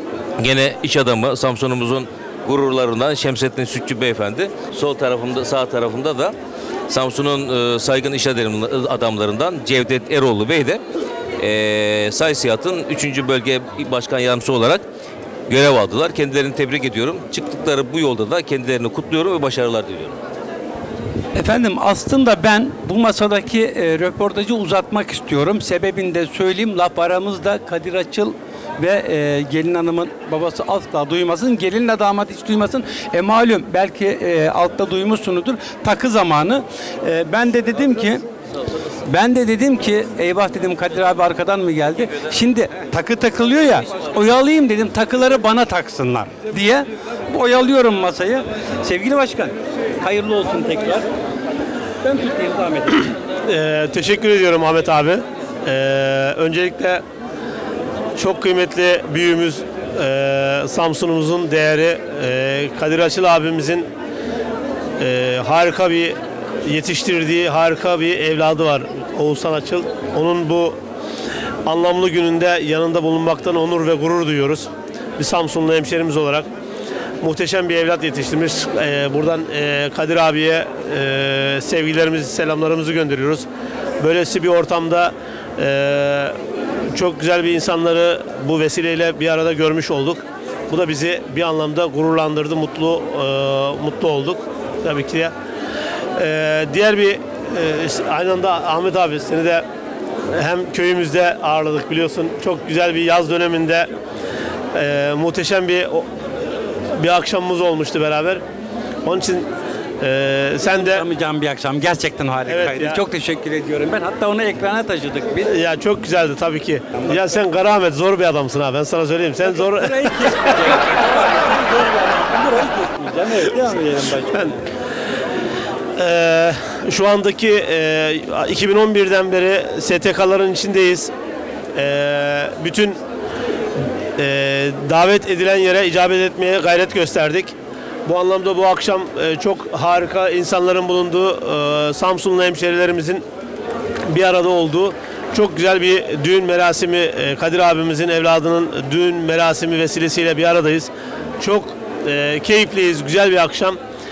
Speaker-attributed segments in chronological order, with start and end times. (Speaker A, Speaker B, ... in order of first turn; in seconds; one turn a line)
Speaker A: 0.4-6.3
Speaker A: 6.9-10.8
Speaker A: 11.4-14.8
Speaker A: 15.5-20.2
Speaker B: 21.3-38.2
Speaker B: 39.0-51.0
Speaker B: 52.0-53.1
Speaker C: 53.4-57.0
Speaker C: 58.2-63.9
Speaker C: 65.0-70.8
Speaker C: 71.7-76.5
Speaker C: 77.2-83.5
Speaker C: 84.0-86.4
Speaker C: 86.9-95.3
Speaker C: 96.2-99.7
Speaker C: 100.3-103.9
Speaker C: 104.7-106.1
Speaker C: 107.0-108.4
Speaker C: 109.0-109.5
Speaker C: 110.0-111.0
Speaker B: 110.6-115.5
Speaker C: 112.5-113.0
Speaker C: 115.5-120.1
Speaker B: 119.4-124.6
Speaker C: 126.0-131.1
Speaker C: 131.8-133.0
Speaker C: 134.2-143.2
Speaker C: 144.1-153.8